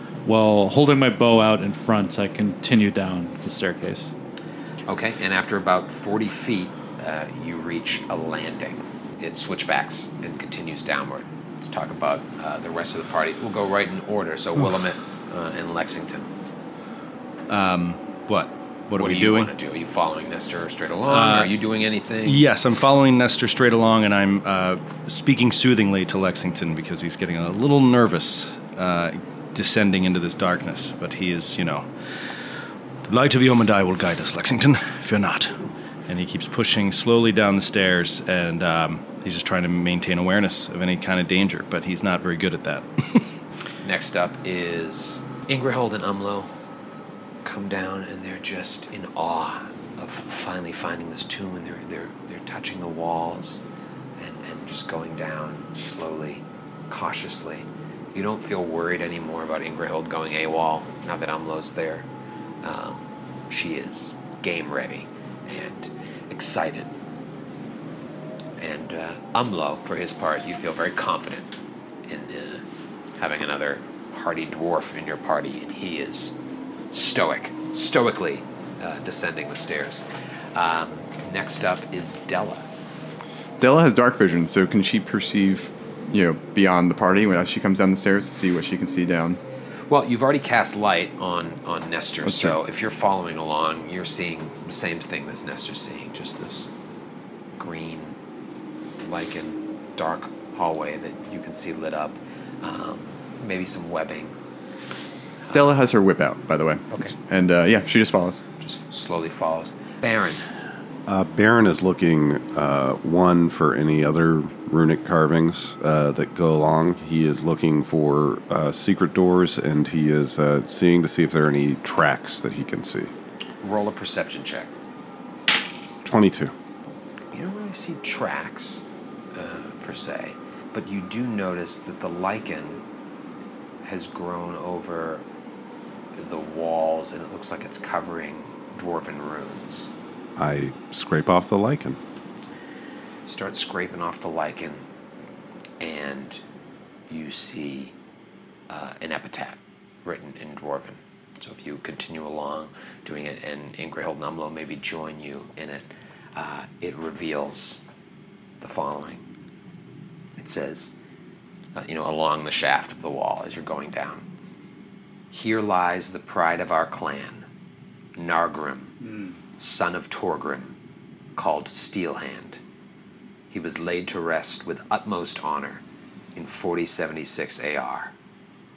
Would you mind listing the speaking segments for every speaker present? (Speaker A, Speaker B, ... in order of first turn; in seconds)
Speaker A: 0.2-4.1, 169.0-169.3
Speaker B: 4.9-16.3, 19.0-22.4, 43.8-46.5, 47.4-53.6, 54.2-62.1, 62.6-66.9, 68.6-72.6, 73.2-76.3, 76.9-82.6, 89.9-96.7, 97.5-98.2, 99.0-104.3, 108.6-110.5, 123.6-124.7, 127.3-132.8, 133.8-135.2, 136.2-139.9, 143.3-144.8, 145.8-146.4, 147.1-147.9, 148.7-157.8, 158.6-159.2, 160.4-160.9, 161.7-164.2, 165.3-167.4, 168.2-168.9, 169.6-170.7, 171.3-172.6, 173.5-175.8, 176.3-178.1
Speaker C: 17.5-19.5, 21.1-21.5, 22.2-32.4, 33.0-43.3
Speaker D: 83.6-89.4, 92.2-92.6, 105.5-108.4
Speaker E: 111.0-123.1, 126.0-126.5, 140.4-142.0